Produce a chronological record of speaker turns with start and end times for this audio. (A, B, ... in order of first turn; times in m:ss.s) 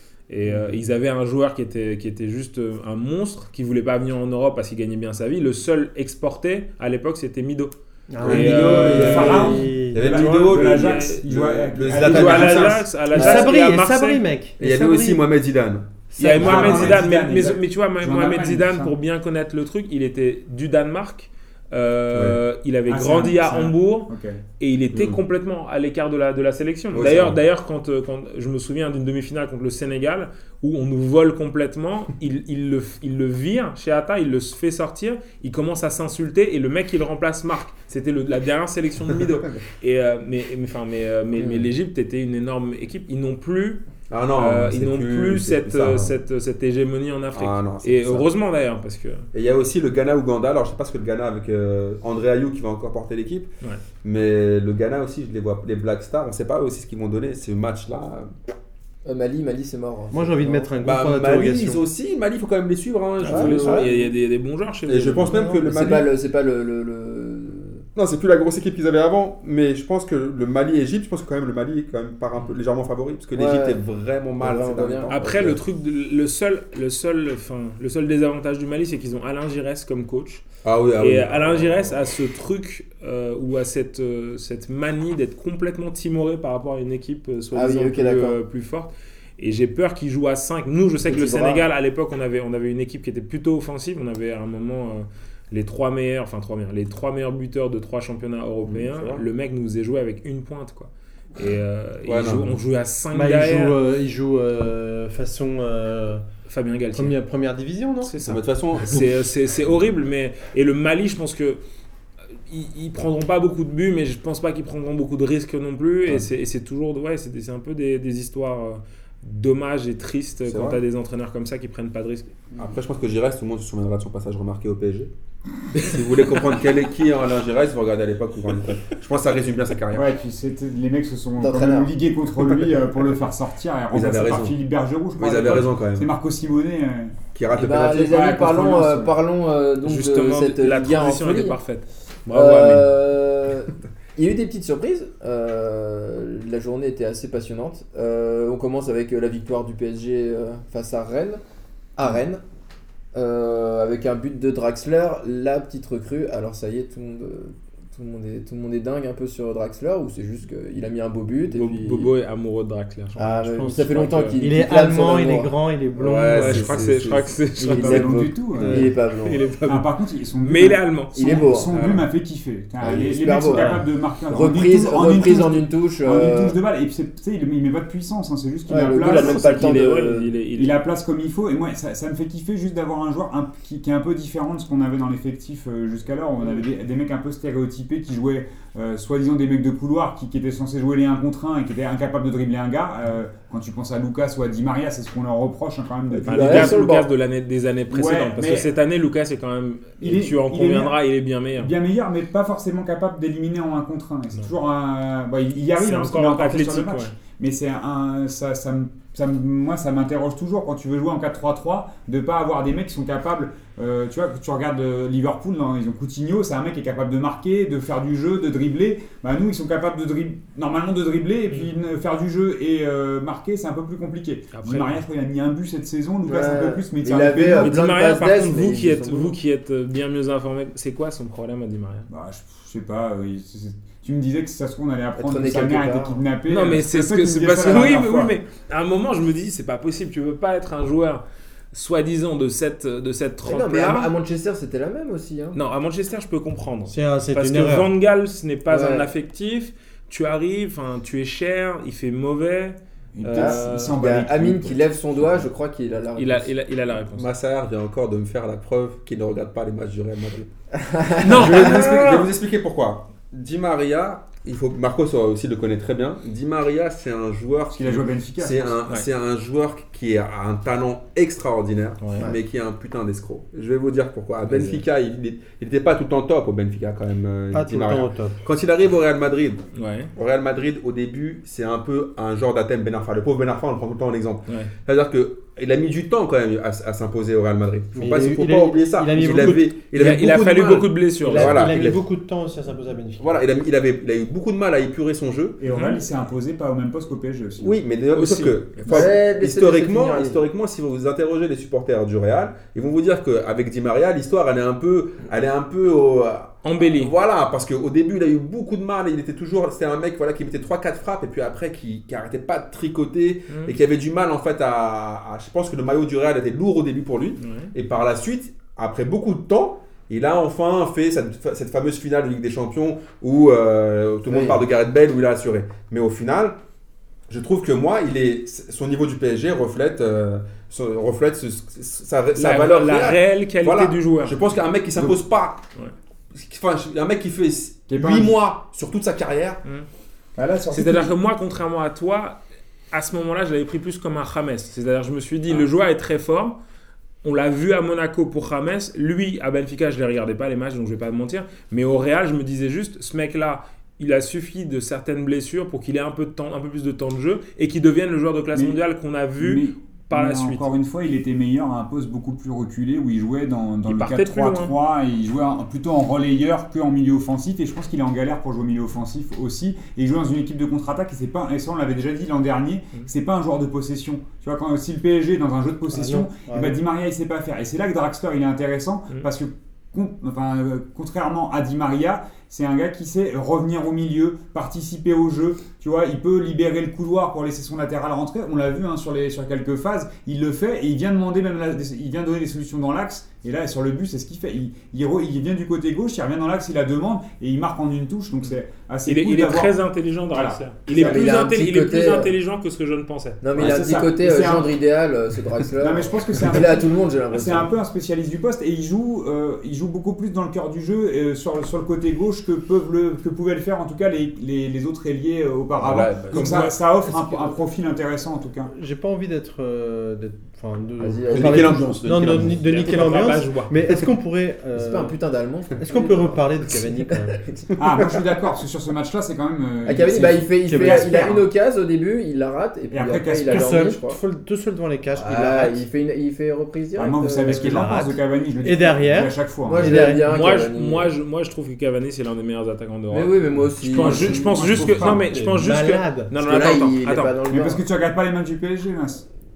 0:00.3-0:11.3 A
0:08.1-0:10.0 B
0:08.2-0:13.5 C
0:08.8-0:12.9 D
0:11.8-0:14.2 A
0:13.1-0:15.2 B
0:13.1-0:13.4 E
0:14.6-0:17.0 C
0:16.2-0:18.9 D
0:16.2-0:43.8 A
0:22.1-0:22.4 C
0:22.9-0:24.4 D
0:24.9-0:25.2 C
0:26.9-0:27.4 C
0:44.1-0:46.1 C
0:44.3-0:49.3 A
0:47.3-0:48.3 C
0:49.3-0:53.5 C
0:54.0-0:58.3 C
0:59.0-1:00.7 E
1:00.1-1:01.8 B
1:00.8-1:04.1 C
1:03.2-1:05.4 A
1:03.2-1:03.9 E
1:04.9-1:06.1 C
1:05.2-1:05.6 B
1:05.6-1:07.8 E
1:07.9-1:15.6 C
1:13.3-1:13.8 E
1:14.4-1:15.6 E
1:15.1-1:20.4 A
1:20.6-1:22.0 C
1:21.0-1:43.8 A
1:27.5-1:28.4 E
1:31.0-1:31.6 E
1:38.6-1:39.2 C
1:42.0-1:42.5 C
1:43.1-1:46.2 B
1:46.5-1:47.2 A
1:46.9-1:48.2 B
1:48.0-1:51.6 A
1:48.2-1:49.1 C
1:52.5-2:02.3 A
2:00.4-2:00.8 C
2:02.6-2:05.1 C
2:05.8-2:10.1 C
2:09.9-2:17.2 D
2:11.4-2:11.9 E
2:13.9-2:14.6 C
2:15.2-2:16.1 C
2:17.3-2:18.2 C
2:17.5-2:21.6 E
2:18.0-2:19.1 D
2:19.8-2:22.9 A
2:22.3-2:31.4 E
2:32.0-2:32.4 E
2:33.1-2:42.1 E
2:41.5-2:44.3 A
2:43.2-2:45.5 E
2:43.5-2:46.9 B
2:46.0-2:47.3 C
2:46.3-2:48.2 A
2:47.6-2:48.9 D
2:47.7-2:49.4 E
2:48.6-2:48.9 B
2:49.2-2:51.1 A
2:49.6-2:59.6 D
2:51.1-2:51.7 E
2:51.7-2:52.0 C
2:52.8-2:56.6 E
2:58.7-3:00.3 E
2:59.0-3:00.8 A
3:00.5-3:16.8 D
3:16.1-3:17.1 E
3:16.2-3:21.7 A
3:17.9-3:18.7 D
3:20.0-3:21.0 D
3:21.6-3:47.8 D
3:25.8-3:27.1 A
3:44.5-3:45.0 A
3:46.2-3:49.3 E
3:47.6-3:52.1 A
3:52.1-3:58.3 D
3:55.2-3:56.2 E
3:56.5-4:04.1 A
4:03.4-4:05.6 E
4:05.5-4:14.0 A
4:06.9-4:07.9 B
4:08.7-4:09.1 E
4:13.1-4:15.5 D
4:13.3-4:16.5 E
4:16.2-4:17.3 A
4:17.1-4:20.5 C
4:20.7-4:21.6 E
4:21.2-4:22.3 A
4:21.2-4:39.6 C
4:27.7-4:28.8 D
4:32.0-4:32.3 B
4:34.5-4:34.8 B
4:37.5-4:38.4 B
4:39.7-4:40.1 A
4:40.1-4:52.0 C
4:44.5-4:44.7 A
4:47.9-4:49.8 B
4:49.9-4:51.7 A
4:51.2-4:53.4 B
4:53.2-4:55.6 C
4:55.6-4:57.7 D
4:55.6-4:56.0 A
4:57.6-5:26.6 C
4:58.1-4:59.1 A
4:58.8-5:00.4 E
5:06.6-5:07.1 A
5:13.5-5:13.7 A
5:17.4-5:17.7 A
5:24.2-5:24.6 E
5:27.3-5:35.6 C
5:32.3-5:34.4 A
5:36.3-5:39.6 C
5:37.9-5:38.4 D
5:40.4-5:41.1 D
5:40.7-5:42.4 A
5:42.9-5:46.6 A
5:47.2-6:00.7 A
5:58.5-5:58.8 D
5:59.4-6:39.7 D
6:03.9-6:04.7 A
6:15.9-6:16.8 B
6:39.1-6:43.4 A
6:40.3-6:41.2 D
6:40.9-6:42.3 E
6:43.4-6:47.7 E
6:43.6-6:44.7 D
6:45.8-6:58.7 D
6:55.7-6:56.6 C
6:56.3-6:57.5 A
6:58.7-7:05.1 B
7:01.0-7:01.9 E
7:01.3-7:03.2 C
7:02.5-7:03.7 A
7:04.7-7:08.2 E
7:05.8-7:07.4 B
7:07.8-7:11.4 D
7:09.8-7:14.2 E
7:10.7-7:11.2 B
7:12.9-7:13.8 D
7:13.5-7:15.8 B
7:15.1-7:17.9 E
7:17.0-7:20.0 D
7:17.5-7:20.3 B
7:19.6-7:21.1 E
7:20.2-7:27.3 A
7:23.1-7:24.6 E
7:24.0-7:25.3 D
7:24.7-7:26.3 B
7:26.4-7:27.8 E
7:27.5-7:29.2 D